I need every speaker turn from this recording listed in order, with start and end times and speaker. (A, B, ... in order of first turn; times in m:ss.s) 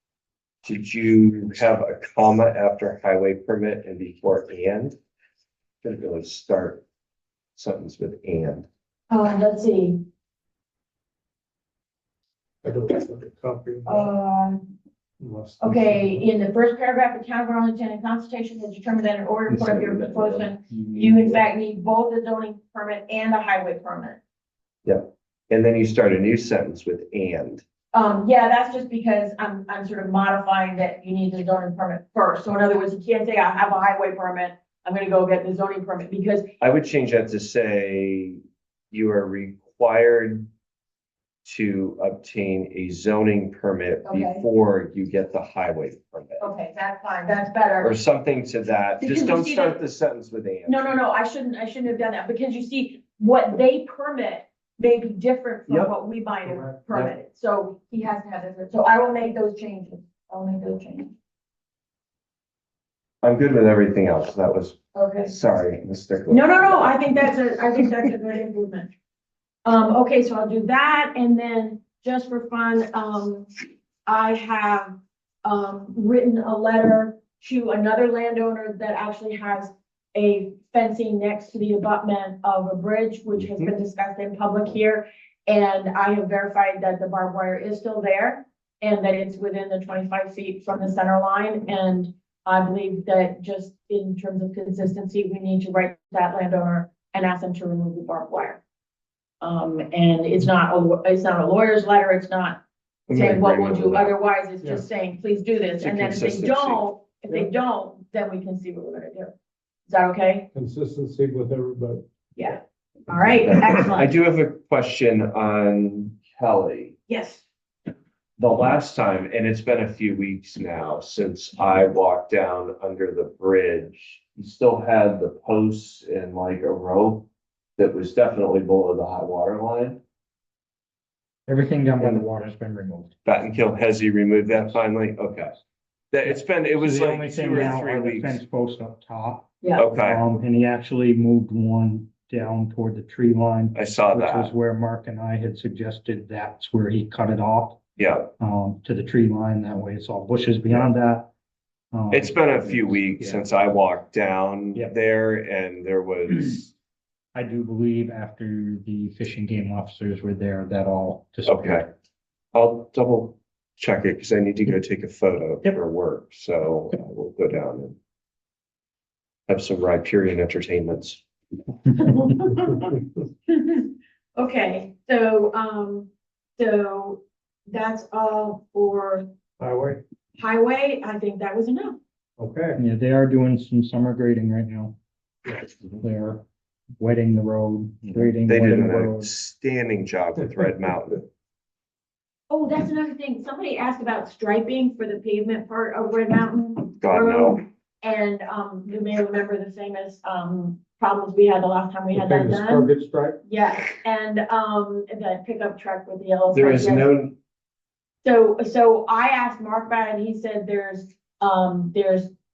0:00.6-0:05.0 A
0:05.8-0:06.8 A
0:07.6-0:08.7 A
0:09.1-0:10.0 B
0:12.6-0:14.1 C
0:13.9-0:14.6 B
0:15.2-0:16.2 C
0:15.6-0:24.2 B
0:19.5-0:21.3 A
0:24.8-0:27.6 A
0:27.9-0:36.5 B
0:36.6-0:40.5 A
0:41.4-0:46.4 A
0:44.0-0:44.4 B
0:46.4-0:47.9 B
0:47.8-0:50.9 A
0:49.0-0:49.8 B
0:50.7-1:01.1 B
0:55.7-0:55.9 A
0:56.8-0:57.1 A
1:03.2-1:07.2 A
1:05.0-1:05.3 B
1:06.3-1:08.9 B
1:09.6-1:13.5 B
1:14.1-1:38.6 B
1:39.4-1:49.3 B
1:43.1-1:44.1 A
1:45.8-1:47.4 A
1:49.9-1:50.5 B
1:50.5-1:52.0 C
1:52.4-1:54.1 B
1:53.4-1:57.0 A
1:57.1-1:57.4 B
1:58.4-2:10.0 A
2:11.5-2:13.1 D
2:12.0-2:12.3 A
2:13.2-2:15.6 A
2:16.1-2:18.4 A
2:16.2-2:27.8 D
2:19.8-2:20.2 A
2:23.7-2:24.5 A
2:28.0-2:28.3 A
2:28.4-2:31.3 D
2:31.9-2:33.4 D
2:32.1-2:36.7 A
2:37.4-2:41.8 D
2:41.5-2:41.9 A
2:42.5-2:48.0 A
2:49.5-2:51.2 A
2:52.1-2:52.8 B
2:52.6-2:52.8 C
2:53.5-2:59.3 B
2:59.6-3:00.0 C
3:00.4-3:02.0 B
3:02.4-3:02.8 C
3:02.8-3:05.0 D
3:05.8-3:06.4 D
3:07.0-3:09.3 D
3:08.1-3:11.2 A
3:12.5-3:22.9 B
3:17.0-3:17.6 A
3:22.1-3:23.4 C
3:23.4-3:27.1 B
3:26.5-3:27.4 A
3:28.2-3:32.3 B